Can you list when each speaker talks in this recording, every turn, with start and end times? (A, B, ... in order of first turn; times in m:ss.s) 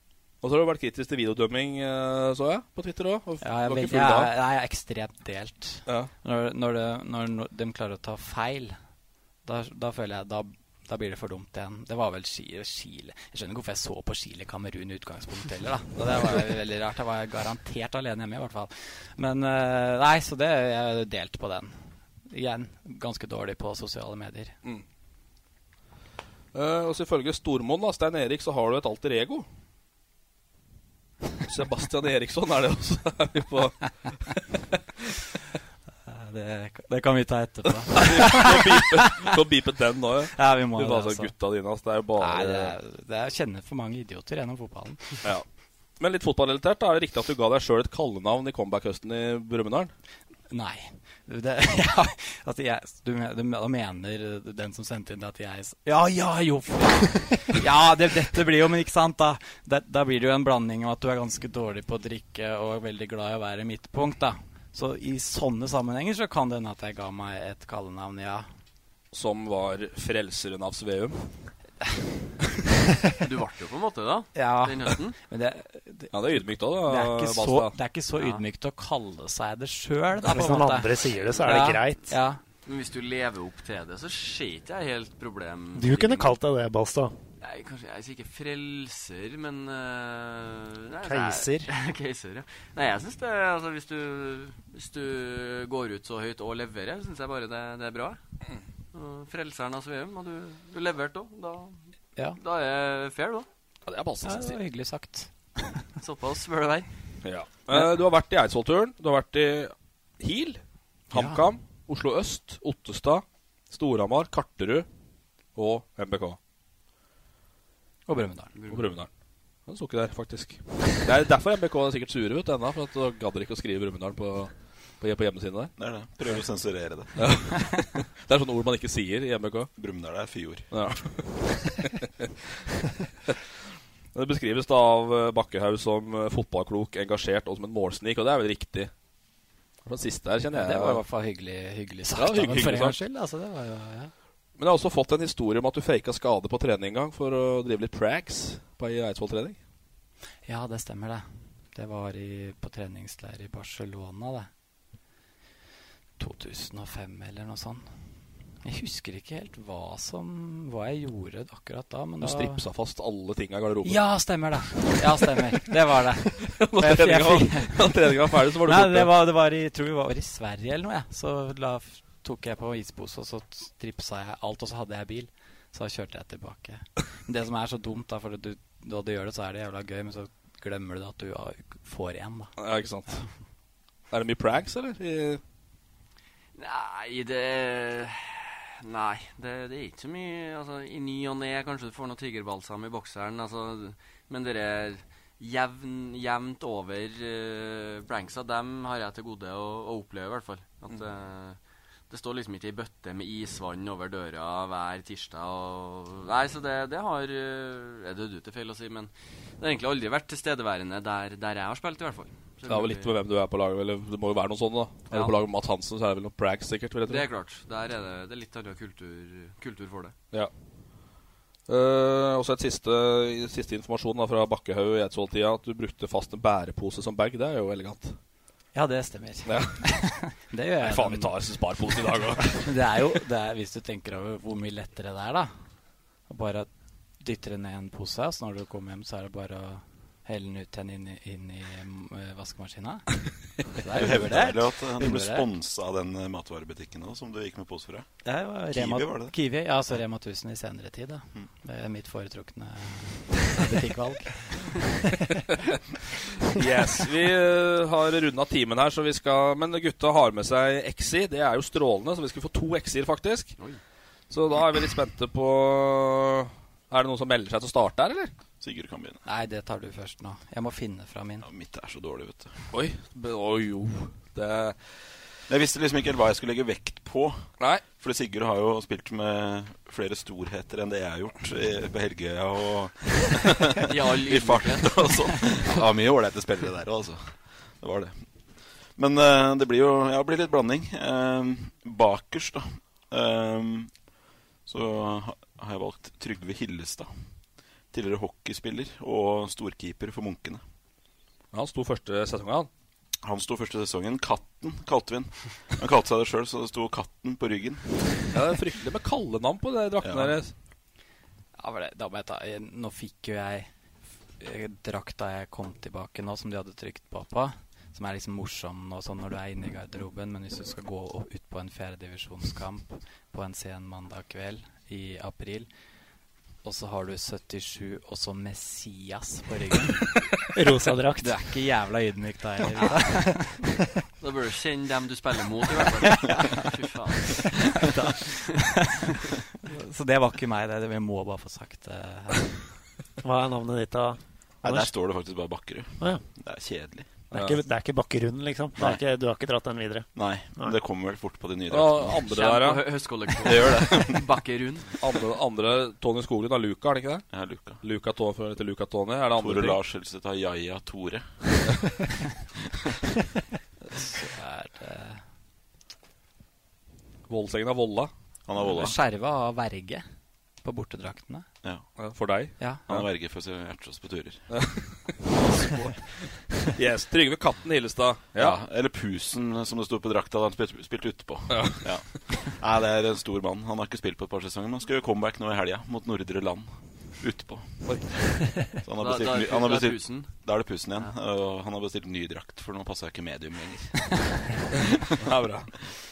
0:00.4-0:04.3 A
0:03.4-0:08.8 B
0:05.8-0:06.1 A
0:09.4-0:21.7 B
0:22.3-0:24.6 B
0:26.5-0:29.4 A
0:31.4-0:34.4 A
0:36.1-0:38.9 B
0:37.9-0:42.7 A
0:40.3-0:41.3 B
0:42.2-0:45.2 B
0:46.0-0:49.9 A
0:50.5-1:08.5 B
1:09.1-1:11.5 A
1:13.2-1:15.2 C
1:14.3-1:22.4 B
1:16.1-1:17.7 A
1:20.2-1:22.1 D
1:21.1-1:21.6 C
1:22.6-1:26.4 C
1:25.7-1:27.1 D
1:27.4-1:38.2 C
1:31.0-1:31.7 D
1:38.9-1:41.8 C
1:42.4-1:43.5 C
1:43.9-1:44.6 A
1:44.2-1:45.8 B
1:46.0-1:46.9 C
1:47.2-1:50.6 A
1:51.1-1:54.8 A
1:51.1-1:51.4 B
1:55.5-1:56.4 A
1:58.1-1:58.5 B
1:58.6-1:58.9 C
1:58.7-1:59.1 A
1:59.6-2:05.7 A
2:05.8-2:07.2 E
2:07.2-2:09.7 A
2:09.8-2:10.7 E
2:10.7-2:12.0 A
2:14.1-2:18.9 A
2:19.8-2:21.0 A
2:20.5-2:24.1 B
2:22.1-2:23.0 A
2:24.6-2:29.6 A
2:30.4-2:34.5 B
2:36.2-2:37.9 B
2:38.6-2:42.6 B
2:42.2-2:45.3 A
2:43.8-2:48.0 B
2:46.4-2:49.1 A
2:48.6-3:02.5 B
3:02.6-3:03.2 A
3:04.1-3:05.4 A
3:06.5-3:21.6 C
3:22.1-3:33.1 C
3:32.7-3:37.2 A
3:37.0-3:40.1 C
3:41.7-3:48.2 A
3:48.7-3:51.3 B
3:49.4-3:49.8 A
3:50.8-3:52.7 A
3:52.6-3:55.5 B
3:56.3-3:56.7 B
3:57.2-4:05.5 B
4:03.9-4:09.3 E
4:08.2-4:14.8 B
4:16.4-4:23.6 A
4:24.3-4:28.3 A
4:28.6-4:29.2 E
4:29.2-4:31.4 B
4:31.4-4:32.6 E
4:32.7-4:34.9 A
4:35.5-4:54.0 E
4:43.8-4:45.6 C
4:54.6-4:57.1 E
4:57.9-5:00.6 E
5:01.5-5:02.7 A
5:03.2-5:08.3 E
5:08.3-5:10.5 A
5:10.0-5:10.4 E
5:11.6-5:13.7 B
5:14.4-5:25.7 B
5:26.6-5:30.2 B
5:30.5-5:31.4 D
5:31.2-5:33.6 B
5:34.2-5:37.8 C
5:37.9-5:39.0 B
5:39.6-5:42.7 B
5:43.2-5:44.9 D
5:44.6-5:47.1 E
5:47.3-5:47.6 A
5:47.3-5:50.7 D
5:50.1-5:52.3 E
5:51.7-5:52.9 A
5:52.2-5:55.0 C
5:53.4-5:54.2 E
5:55.0-5:59.8 A
5:57.3-5:57.8 E
5:59.4-6:01.6 E
6:03.9-6:05.2 B
6:07.3-6:08.1 A
6:08.5-6:09.0 E
6:08.6-6:10.0 B
6:10.6-6:11.4 B
6:12.0-6:13.0 A
6:12.6-6:12.8 B
6:12.9-6:14.5 E
6:14.5-6:18.6 A
6:18.4-6:28.0 E
6:21.5-6:22.2 A
6:27.8-6:28.5 A
6:28.8-6:34.8 E
6:29.0-6:30.3 C
6:35.2-6:35.7 A